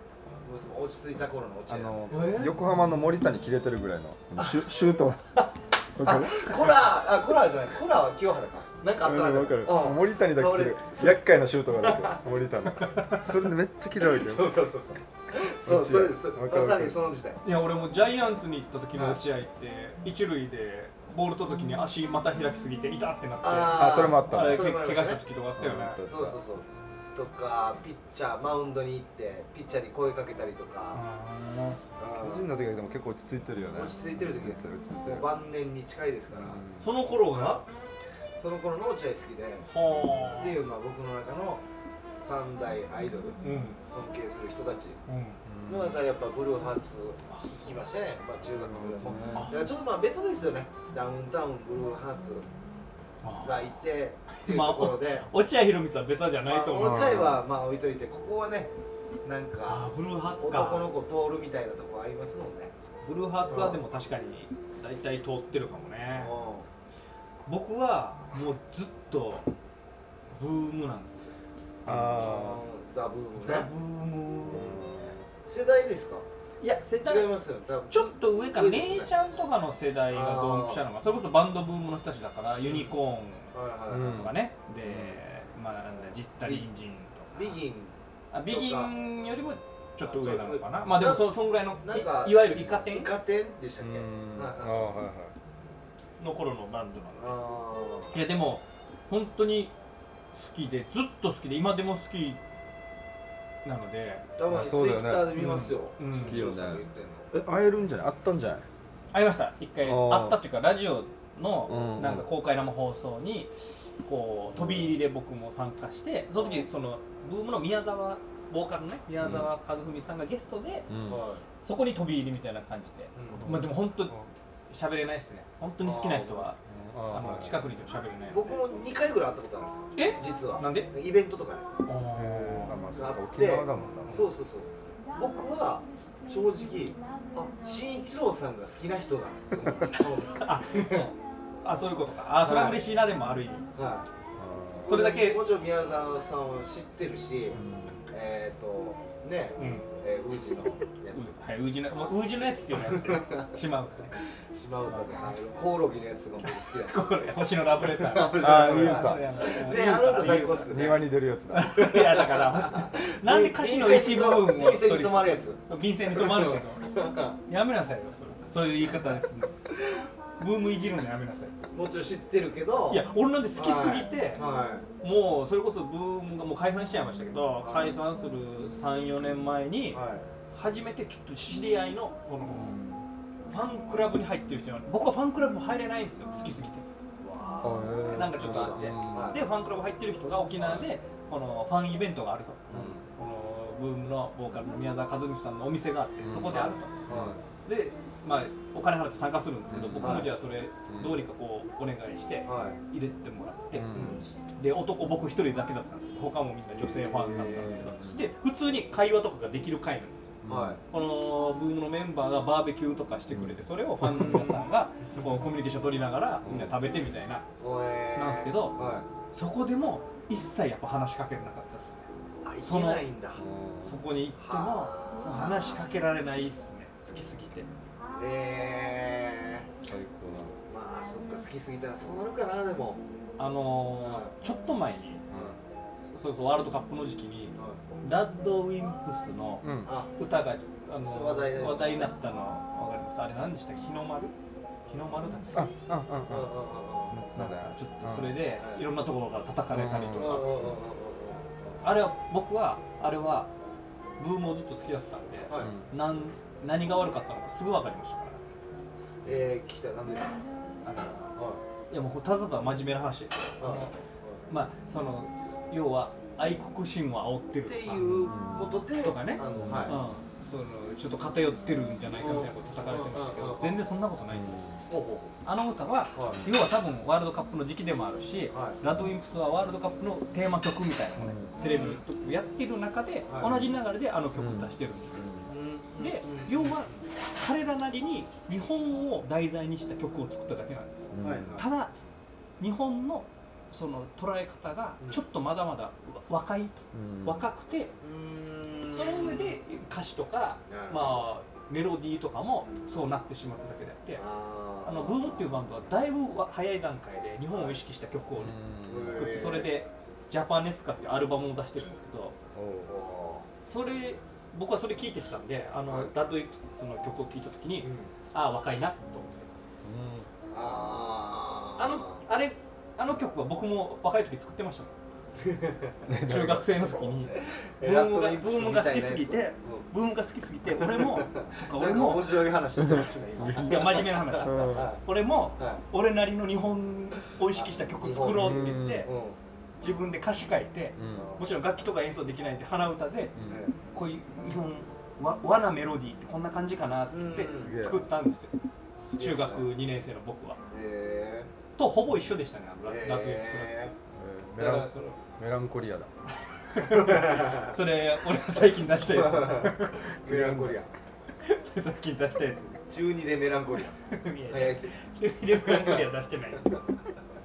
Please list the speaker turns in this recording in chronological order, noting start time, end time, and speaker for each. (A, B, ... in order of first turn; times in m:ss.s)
0:00.4-0:02.4 A
0:01.7-0:05.4 B
0:02.1-0:02.5 C
0:04.4-0:04.7 A
0:06.0-0:06.7 B
0:06.0-0:12.2 A
0:09.0-0:14.7 B
0:14.0-0:17.4 A
0:15.6-0:17.0 B
0:17.4-0:26.0 C
0:18.9-0:19.2 A
0:23.4-0:25.2 A
0:23.7-0:24.7 B
0:25.6-0:26.4 B
0:26.0-0:31.0 A
0:30.9-0:31.8 C
0:32.0-0:32.4 A
0:32.1-0:35.3 B
0:33.7-0:36.6 A
0:36.3-0:36.9 B
0:36.8-0:37.6 C
0:37.3-0:37.6 A
0:38.4-0:39.7 A
0:39.7-0:40.6 C
0:40.4-0:41.6 A
0:42.2-0:45.0 A
0:43.4-0:43.8 C
0:45.1-0:45.4 C
0:45.4-0:46.0 B
0:45.7-0:52.5 A
0:48.5-0:49.5 B
0:49.4-0:49.6 C
0:53.2-0:53.8 C
0:53.4-0:55.3 A
0:54.3-0:57.2 C
0:56.5-0:58.7 A
0:56.8-0:57.4 B
0:59.2-1:02.7 A
0:59.7-1:00.9 C
1:03.0-1:06.3 C
1:03.5-1:03.8 A
1:06.1-1:06.7 A
1:07.5-1:09.5 C
1:10.3-1:11.4 C
1:11.8-1:12.6 B
1:11.9-1:13.7 A
1:13.4-1:14.8 C
1:14.5-1:15.3 B
1:15.4-1:16.3 A
1:16.6-1:17.3 C
1:17.0-1:19.1 A
1:17.9-1:23.5 C
1:20.1-1:20.8 A
1:22.6-1:22.9 A
1:23.5-1:24.3 A
1:23.9-1:24.4 B
1:24.0-1:27.6 C
1:24.9-1:25.2 B
1:26.4-1:26.7 A
1:27.4-1:28.0 A
1:28.3-1:33.1 C
1:28.5-1:28.9 A
1:30.0-1:34.9 A
1:33.8-1:35.4 B
1:36.2-1:37.4 C
1:37.2-1:38.1 A
1:38.1-1:39.7 C
1:40.3-1:42.4 C
1:43.6-1:44.2 C
1:44.4-1:47.3 A
1:44.5-1:45.4 B
1:45.4-1:46.4 C
1:46.0-1:48.7 B
1:49.1-2:00.9 C
1:49.8-1:50.4 B
1:51.7-1:52.3 B
1:54.6-1:55.0 B
1:59.2-1:59.5 B
2:00.9-2:01.2 B
2:01.1-2:01.4 A
2:01.6-2:06.6 C
2:03.2-2:03.5 A
2:03.4-2:04.3 B
2:05.8-2:06.5 A
2:06.7-2:07.6 B
2:07.1-2:08.6 C
2:08.3-2:11.7 A
2:10.0-2:10.9 C
2:11.9-2:12.8 C
2:12.1-2:14.3 B
2:13.0-2:21.1 A
2:19.9-2:21.1 C
2:21.6-2:23.6 C
2:22.4-2:22.9 A
2:23.8-2:24.1 A
2:24.4-2:25.0 B
2:24.8-2:27.6 A
2:24.9-2:25.4 C
2:27.5-2:28.1 B
2:28.1-2:31.3 A
2:29.6-2:29.9 C
2:31.1-2:34.2 C
2:32.8-2:33.5 A
2:34.5-2:41.0 A
2:36.7-2:40.9 C
2:38.4-2:39.3 B
2:40.6-2:41.9 B
2:41.5-2:46.8 C
2:41.8-2:47.4 A
2:47.5-2:49.6 C
2:48.8-2:49.2 A
2:50.4-2:51.6 C
2:51.7-2:54.9 A
2:52.9-2:54.4 C
2:55.0-3:00.0 C
2:57.6-2:58.0 A
2:59.9-3:00.3 A
3:00.5-3:02.7 C
3:02.4-3:03.1 B
3:03.5-3:06.8 C
3:07.2-3:09.4 A
3:07.6-3:09.4 B
3:08.0-3:17.0 C
3:12.7-3:13.0 A
3:12.7-3:13.0 B
3:16.2-3:17.4 B
3:16.5-3:17.4 A
3:17.6-3:24.0 C
3:19.7-3:20.3 B
3:20.0-3:20.3 A
3:20.9-3:21.2 B
3:22.4-3:22.8 A
3:23.7-3:24.2 B
3:23.9-3:24.2 A
3:24.6-3:30.4 C
3:26.8-3:28.3 B
3:27.3-3:27.8 A
3:30.4-3:30.8 B
3:30.5-3:30.8 A
3:30.9-3:37.5 C
3:33.3-3:33.6 B
3:34.0-3:34.6 A
3:36.4-3:36.8 B
3:37.6-3:39.1 A
3:38.2-3:38.8 C
3:39.3-3:42.1 C
3:42.4-3:43.4 A
3:42.6-3:43.0 C
3:43.4-3:44.0 B
3:43.8-3:47.7 C
3:44.4-3:45.8 A
3:48.1-3:49.7 A
3:49.8-3:50.6 B
3:50.7-3:53.0 A
3:53.4-3:55.2 C
3:54.0-3:54.3 A
3:55.3-3:55.6 B
3:55.3-3:55.6 A
3:56.1-4:04.4 C
3:59.6-3:59.9 B
3:59.9-4:00.1 A
4:01.0-4:02.1 A
4:04.9-4:05.7 C
4:05.5-4:06.5 B
4:06.3-4:07.2 A
4:07.1-4:08.4 B
4:07.3-4:10.5 C
4:08.6-4:08.8 A
4:09.7-4:10.4 B
4:10.2-4:11.8 A
4:11.8-4:13.5 C
4:14.2-4:18.4 C
4:15.5-4:15.7 A
4:15.6-4:15.9 B
4:19.2-4:20.4 A
4:20.8-4:21.4 C
4:21.4-4:21.6 A
4:21.9-4:24.0 C
4:23.6-4:24.4 A
4:24.5-4:28.3 C
4:27.6-4:30.0 A
4:28.2-4:28.7 B
4:29.0-4:45.2 C
4:29.5-4:30.0 B
4:32.1-4:33.8 A
4:34.3-4:34.8 B
4:34.9-4:35.3 A
4:36.1-4:36.4 A
4:38.5-4:38.8 A
4:41.2-4:41.6 B
4:41.6-4:42.0 A
4:43.3-4:43.6 A
4:43.4-4:43.7 B
4:44.4-4:45.5 B
4:45.5-4:46.8 A
4:46.0-4:51.9 C
4:51.1-4:51.6 B
4:51.2-4:51.7 A
4:52.6-4:57.9 C
4:56.9-4:57.4 B
4:58.0-4:59.6 A
4:58.9-5:04.2 C
5:00.7-5:01.2 A
5:04.2-5:05.5 A
5:04.8-5:08.6 C
5:07.5-5:07.8 A
5:08.4-5:09.5 B
5:08.8-5:09.8 A
5:09.1-5:12.4 C
5:12.6-5:12.9 B
5:12.9-5:13.5 A
5:13.7-5:19.5 C
5:17.8-5:18.1 A
5:19.8-5:20.3 B
5:20.5-5:22.2 A
5:21.8-5:24.9 C
5:25.4-5:26.1 A
5:26.1-5:26.9 B
5:26.2-5:32.3 C
5:27.3-5:29.9 A
5:30.8-5:35.0 A
5:33.4-5:39.1 C
5:34.4-5:34.9 B
5:35.6-5:35.8 A
5:37.5-5:39.4 A
5:38.3-5:39.1 B
5:39.8-5:43.4 C
5:41.0-5:41.3 B
5:41.1-5:41.5 A
5:43.4-5:43.6 B
5:43.5-5:43.8 A
5:43.9-5:48.6 C
5:47.1-5:47.9 A
5:47.5-5:48.0 B
5:49.0-5:49.7 A
5:49.2-5:50.6 C
5:50.7-5:51.5 A
5:51.8-5:53.9 C
5:52.9-5:53.9 A
5:54.1-5:56.1 B
5:54.6-5:55.2 C
5:56.6-6:00.8 C
5:57.1-5:57.8 A
5:59.1-6:00.9 A
6:01.4-6:02.8 C
6:02.9-6:04.0 A
6:04.0-6:06.7 C
6:04.5-6:04.9 A
6:05.7-6:06.0 A